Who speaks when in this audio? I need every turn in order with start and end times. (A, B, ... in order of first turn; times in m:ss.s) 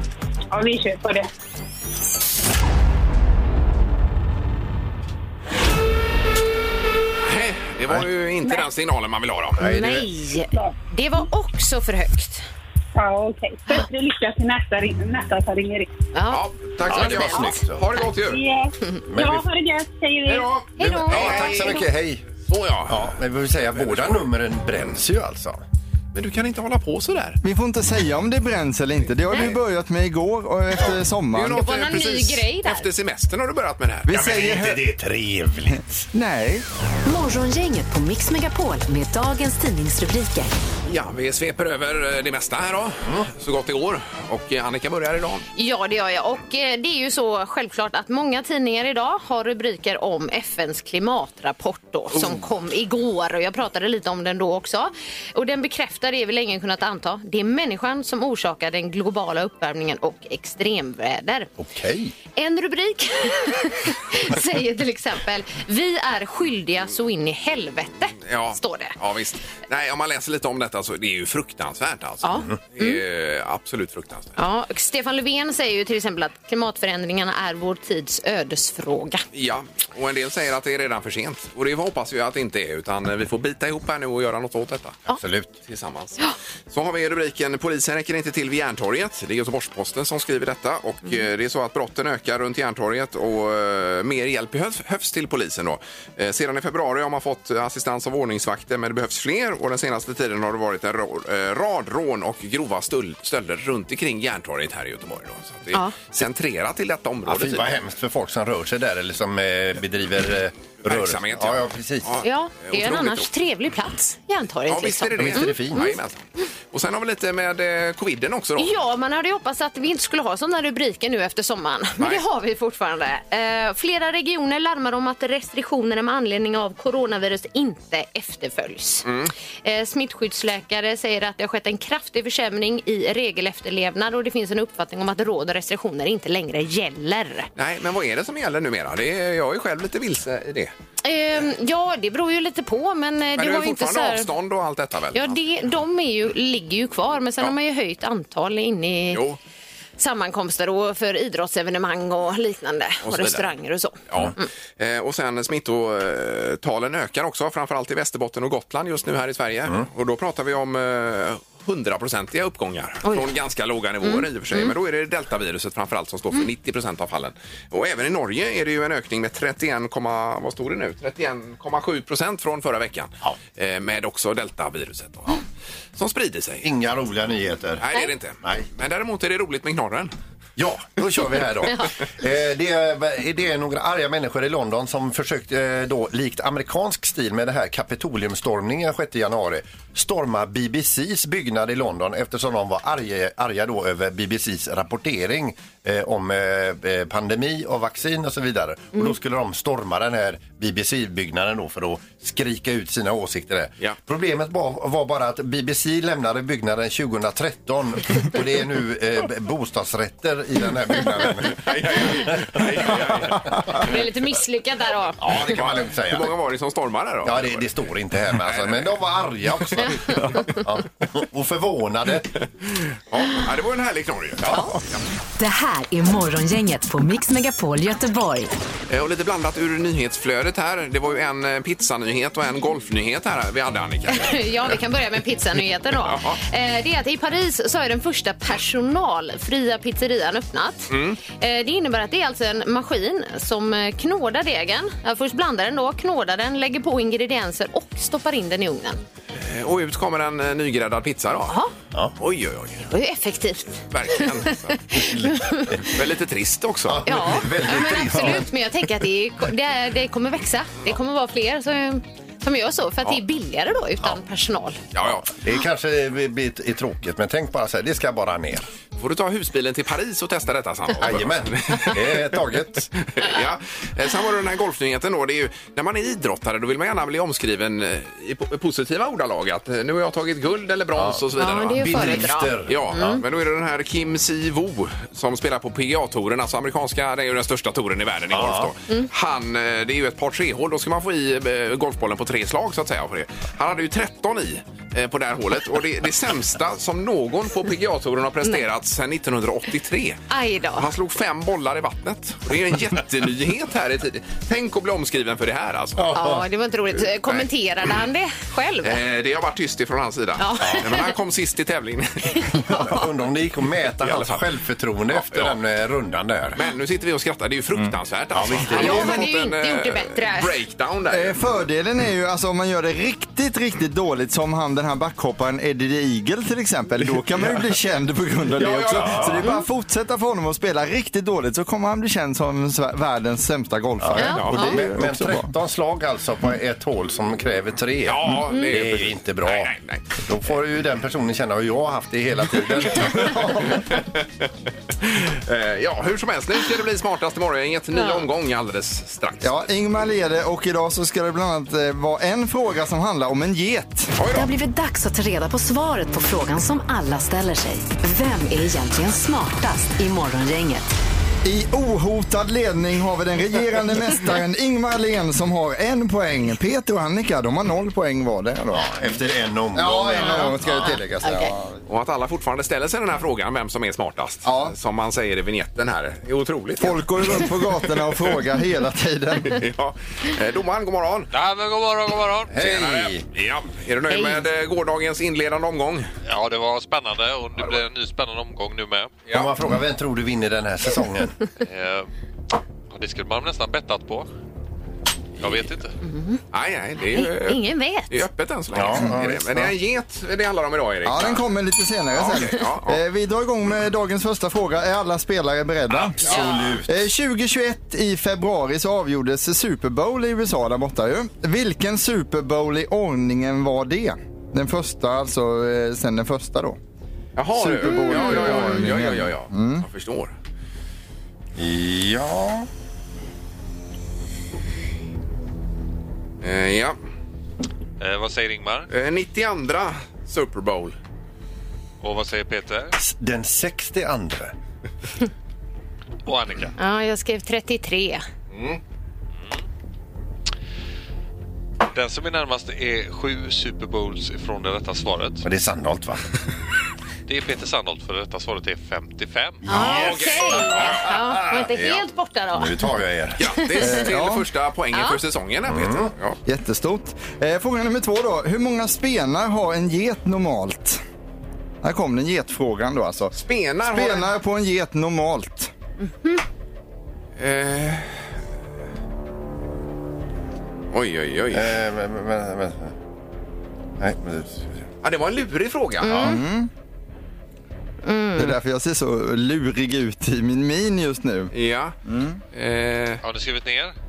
0:00.5-0:01.3 A
0:07.2-0:09.6 B
0:09.6-0:10.1 C
0:09.6-0:12.5 D
0:13.0-0:15.9 A
0:16.1-0:17.6 D
0:16.3-0:18.4 B
0:16.9-0:17.9 C
0:18.3-0:20.5 A
0:19.1-0:19.4 C
0:20.2-0:21.9 B
0:20.8-0:21.8 D
0:20.8-0:22.2 C
0:22.5-0:23.2 B
0:22.9-0:25.6 C
0:23.8-0:24.2 B
0:26.1-0:27.4 B
0:27.4-0:31.6 E
0:31.3-0:34.3 B
0:31.5-0:32.9 D
0:34.1-0:34.8 E
0:34.1-0:35.9 C
0:35.7-0:36.6 E
0:37.0-0:40.5 F
0:40.9-0:45.5 B
0:45.6-1:01.5 D
1:01.6-1:02.1 C
1:02.4-1:09.0 D
1:08.2-1:14.4 B
1:12.2-1:13.0 D
1:14.4-1:19.2 D
1:19.3-1:25.0 B
1:25.1-1:25.6 C
1:25.6-1:47.8 B
1:47.3-1:52.1 C
1:50.8-1:53.3 B
1:52.2-1:56.0 D
1:54.7-1:58.8 B
1:55.2-1:55.9 C
1:58.6-2:09.1 D
2:02.0-2:02.2 B
2:09.0-2:09.3 B
2:09.6-2:17.5 D
2:17.6-2:20.7 B
2:21.0-2:24.3 D
2:23.4-2:25.4 B
2:25.1-2:29.2 D
2:29.1-2:29.4 B
2:30.0-2:34.5 D
2:33.0-2:33.5 B
2:34.1-2:55.4 B
2:44.0-2:44.7 D
2:56.0-2:56.7 B
2:56.6-2:57.8 C
2:57.8-3:00.1 B
3:00.6-3:33.8 C
3:31.4-3:33.9 B
3:33.8-3:35.2 D
3:35.2-3:36.3 C
3:35.2-3:37.7 B
3:37.2-3:42.3 C
3:38.4-3:38.9 B
3:43.1-3:45.0 B
3:45.4-3:48.5 F
3:48.9-3:54.8 B
3:54.1-4:09.0 D
3:56.0-3:56.4 B
4:00.9-4:01.2 B
4:09.4-4:11.6 B
4:12.2-4:12.9 B
4:12.9-4:15.8 D
4:13.9-4:14.8 B
4:14.9-4:15.9 C
4:15.8-4:17.1 B
4:16.8-4:18.5 C
4:17.1-4:24.8 D
4:24.9-4:25.3 B
4:25.0-4:28.7 C
4:29.0-4:32.4 B
4:31.0-4:32.9 C
4:33.0-5:00.2 B
4:41.0-4:43.2 C
4:41.4-4:43.2 D
4:48.3-4:48.7 C
5:00.3-5:00.9 D
5:00.8-5:06.1 B
5:06.0-5:06.4 C
5:06.1-5:09.0 D
5:08.8-5:12.5 B
5:10.4-5:11.1 D
5:12.3-5:12.7 D
5:12.6-5:16.6 C
5:14.0-5:14.5 B
5:15.1-5:15.6 B
5:16.6-5:21.4 B
5:18.3-5:19.2 C
5:18.7-5:20.6 D
5:21.1-5:35.5 E
5:28.6-5:29.4 B
5:29.0-5:29.4 C
5:34.0-5:43.9 C
5:34.2-5:34.8 D
5:38.0-5:40.1 B
5:38.5-5:38.7 D
5:43.7-5:44.5 B
5:45.0-5:49.6 B
5:47.9-5:48.2 D
5:49.4-5:54.2 E
5:54.2-5:54.5 B
5:54.3-6:00.9 F
6:01.4-6:08.9 E
6:08.7-6:11.0 C
6:09.7-6:11.8 E
6:10.2-6:11.5 D
6:11.9-6:17.5 B
6:14.4-6:14.8 E
6:16.8-6:19.6 E
6:19.4-6:21.3 B
6:21.3-6:23.1 G
6:22.5-6:23.2 C
6:23.3-6:26.1 B
6:24.1-6:24.4 D
6:26.3-6:29.2 G
6:29.3-6:31.4 C
6:31.6-6:32.1 G
6:32.9-6:34.3 G
6:35.4-6:35.9 G
6:36.0-6:36.4 D
6:36.5-6:41.4 B
6:37.1-6:38.2 D
6:38.7-6:39.7 C
6:41.0-6:46.2 E
6:42.1-6:43.0 B
6:45.9-6:47.0 C
6:46.3-6:46.7 D
6:46.9-6:56.8 E
6:57.4-7:00.3 B
6:57.5-6:59.8 E
6:58.1-6:58.6 D
7:01.6-7:02.7 C
7:06.4-7:07.0 B
7:08.0-7:08.9 G
7:08.9-7:11.0 B
7:12.0-7:13.0 G
7:13.0-7:14.5 C
7:16.3-7:16.7 G
7:16.8-7:18.2 D
7:21.9-7:25.4 G
7:25.4-7:26.3 C
7:27.3-7:29.6 G
7:29.6-7:31.7 C
7:29.7-7:32.9 D
7:29.8-7:31.1 B
7:31.8-7:32.0 B
7:32.5-7:33.4 C
7:33.4-7:36.4 B
7:33.8-7:34.5 E
7:34.9-7:35.2 D
7:35.7-7:36.1 C
7:36.5-7:41.0 E
7:41.8-7:45.7 E
7:43.4-7:44.3 B
7:46.0-7:46.4 D
7:47.4-7:48.1 B
7:50.9-7:51.8 B
7:51.5-7:52.9 C
7:54.0-7:54.8 C
7:55.0-7:56.2 B
7:56.0-7:56.4 D
7:56.1-7:56.7 E
7:58.0-7:58.6 D
7:58.4-8:01.5 E
8:01.5-8:02.0 B
8:02.1-8:02.4 E
8:02.5-8:03.2 B
8:03.2-8:03.9 G